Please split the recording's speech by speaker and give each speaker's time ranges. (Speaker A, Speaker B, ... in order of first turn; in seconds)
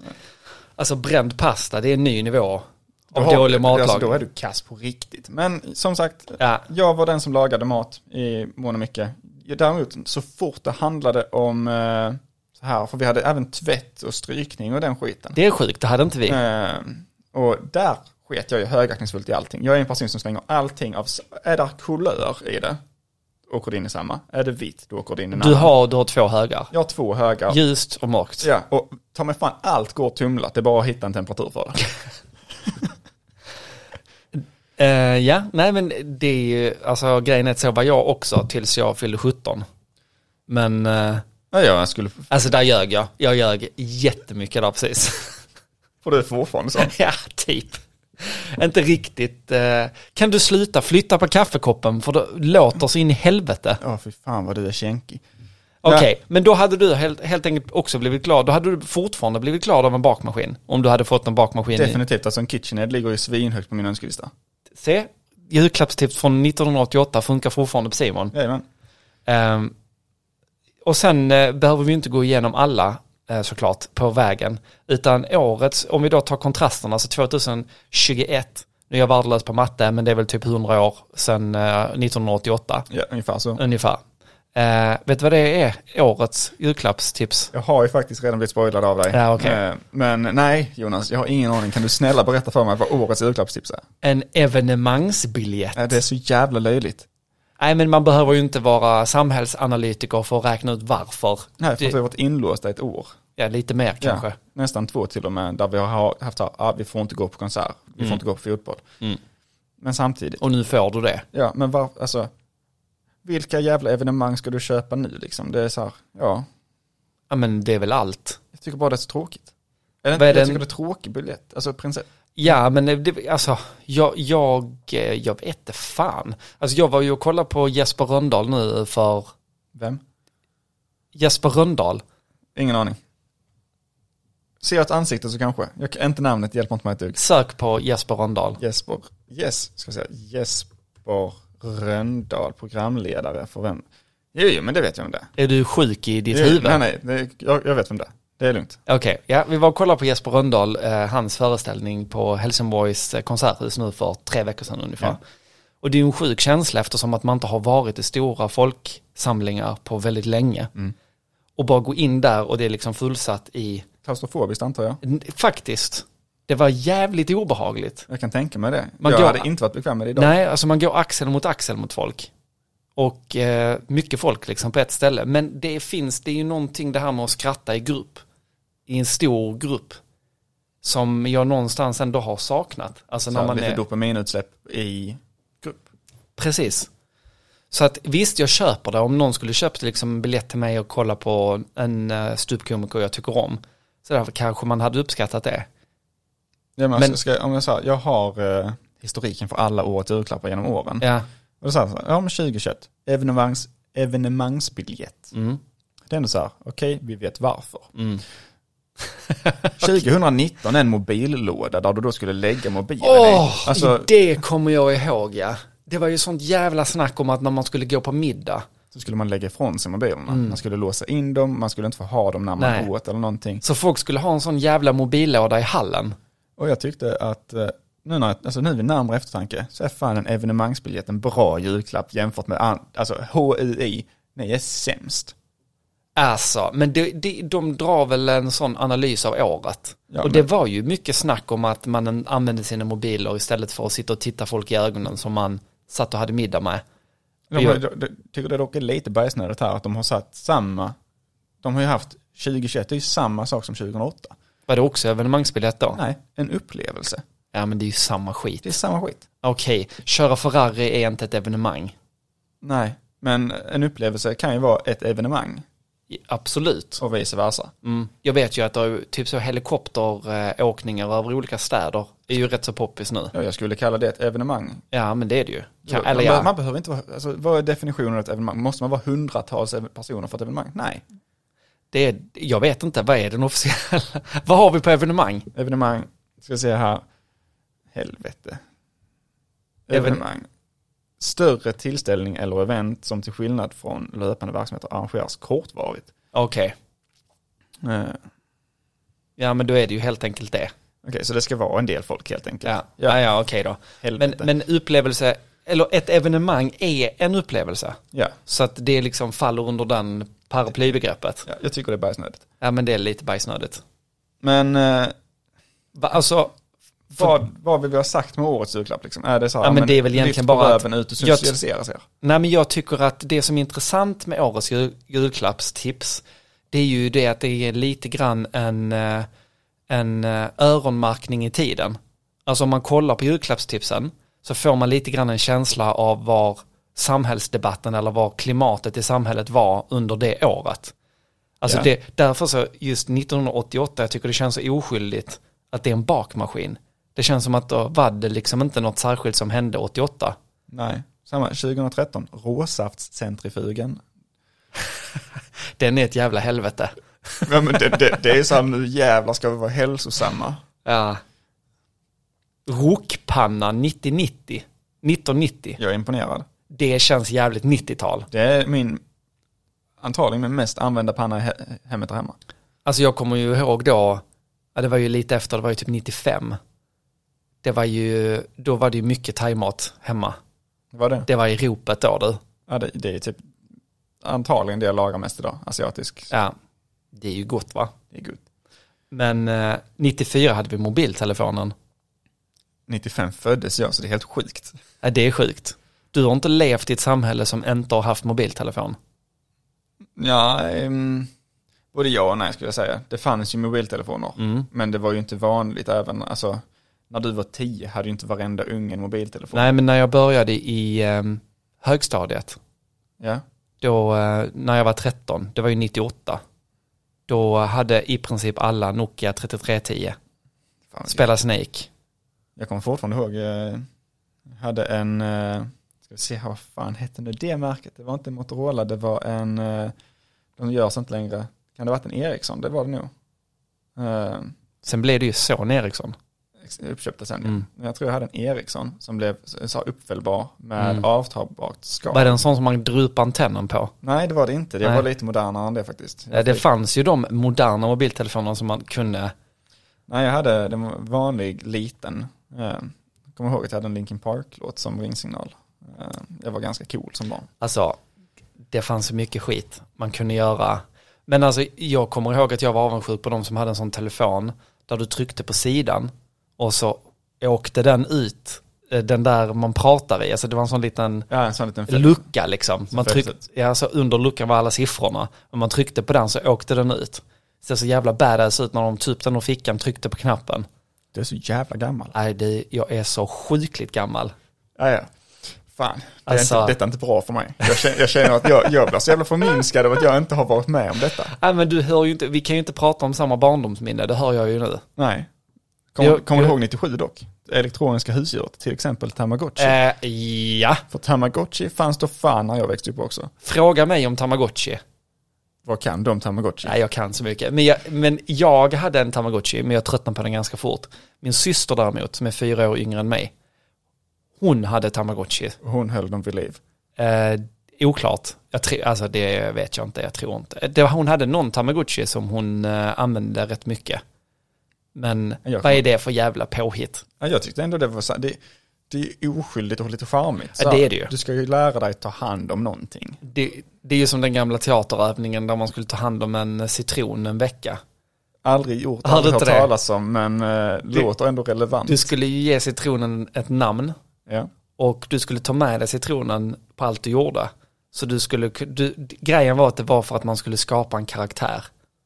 Speaker A: 0.8-4.2, 6.4-6.7, 15.3-16.4, 25.3-26.7, 27.5-28.5, 34.8-39.6, 40.5-41.2, 42.3-45.4, 46.8-53.8, 55.8-62.0, 64.8-68.3, 69.2-69.7, 70.8-82.9, 83.6-84.0, 84.5-87.5, 89.1-89.6, 94.0-96.0, 97.6-102.0, 103.4-104.4, 110.4-111.2, 117.3-118.4, 120.1-120.6, 122.3-129.3, 131.1-132.0, 137.2-138.6, 145.4-146.8, 148.9-155.2, 155.8-160.7, 161.6-163.9, 165.0-168.1, 169.0-169.4, 170.2-172.3, 172.9-178.2, 178.9-180.0, 180.8-183.8, 186.4-186.9, 187.7-195.7, 201.0-201.2, 205.3-205.6, 207.9-208.2, 209.3-209.8, 213.0-218.7, 220.3-220.6, 222.6-222.9, 223.6-226.2, 236.2-246.8, 247.6-247.8, 254.7-256.0, 257.5-258.7, 259.4-261.9, 266.1-267.0, 267.8-273.3, 274.9-276.5, 281.9-285.5, 289.9-290.2, 296.3-296.7, 299.4-300.7, 302.6-311.5, 312.6-313.8, 315.9-316.5, 319.6-321.5, 322.2-329.3, 329.9-340.9, 341.6-350.4, 355.8-357.5, 360.8-361.2, 362.7-365.8, 366.7-368.3, 372.8-374.2, 374.7-376.6, 377.6-380.4, 381.2-382.4, 386.3-386.5, 387.1-387.9, 389.1-391.7, 395.0-399.0, 404.4-404.7, 409.5-412.6, 413.8-416.4, 417.3-420.1, 421.1-421.9, 434.8-436.1, 440.8-441.0, 442.1-443.9, 446.3-449.3, 457.6-458.0, 458.7-471.3, 471.9-480.6, 482.1-484.3, 486.3-486.7, 491.3-494.8, 496.0-496.6, 499.6-500.8, 503.4-504.8, 506.6-513.3, 514.4-515.6, 517.0-524.0, 524.9-527.0, 530.6-531.1, 533.2-537.8, 539.0-539.7, 541.9-544.0, 544.8-551.7
Speaker B: 3.1-15.4, 16.3-22.8, 23.5-25.7, 26.7-27.6, 28.4-31.9, 41.5-42.3, 46.0-46.9, 53.8-55.2, 61.7-64.3, 68.3-68.6, 82.9-83.6, 87.5-93.8, 95.8-97.1, 101.6-103.2, 104.0-108.8, 109.8-110.4, 111.3-112.3, 113.2-116.5, 118.5-119.5, 120.0-122.0, 129.7-130.0, 132.5-133.0, 134.6-137.2, 138.6-145.3, 146.3-148.8, 164.0-165.0, 168.1-170.3, 183.3-185.8, 196.8-201.0, 201.6-205.3, 206.1-207.9, 209.8-214.1, 218.9-223.6, 226.6-235.3, 240.1-240.4, 247.5-250.9, 251.6-254.3, 255.9-257.2, 258.6-259.2, 262.6-265.6, 267.0-267.7, 273.3-274.8, 275.9-281.0, 285.5-287.0, 287.9-288.6, 289.9-290.4, 291.2-296.1, 297.8-298.2, 301.0-303.2, 304.0-304.5, 311.4-312.4, 314.4-315.1, 317.1-322.0, 350.7-354.0, 357.4-360.6, 365.8-366.4, 368.3-369.0, 370.0-372.4, 380.9-381.3, 382.7-383.4, 384.2-386.3, 388.1-388.4, 392.9-394.8, 400.2-401.3, 401.9-409.7, 420.9-421.2, 422.6-423.8, 424.5-429.9, 430.6-433.1, 433.9-434.5, 436.6-442.4, 444.0-446.6, 450.1-457.5, 471.3-472.2, 472.9-473.4, 481.1-482.1, 484.8-485.1, 485.6-491.3, 495.0-495.3, 495.9-499.8, 500.9-503.3, 505.6-506.7, 515.6-516.6, 525.4-525.8, 527.2-528.4, 528.9-533.2, 538.4-542.1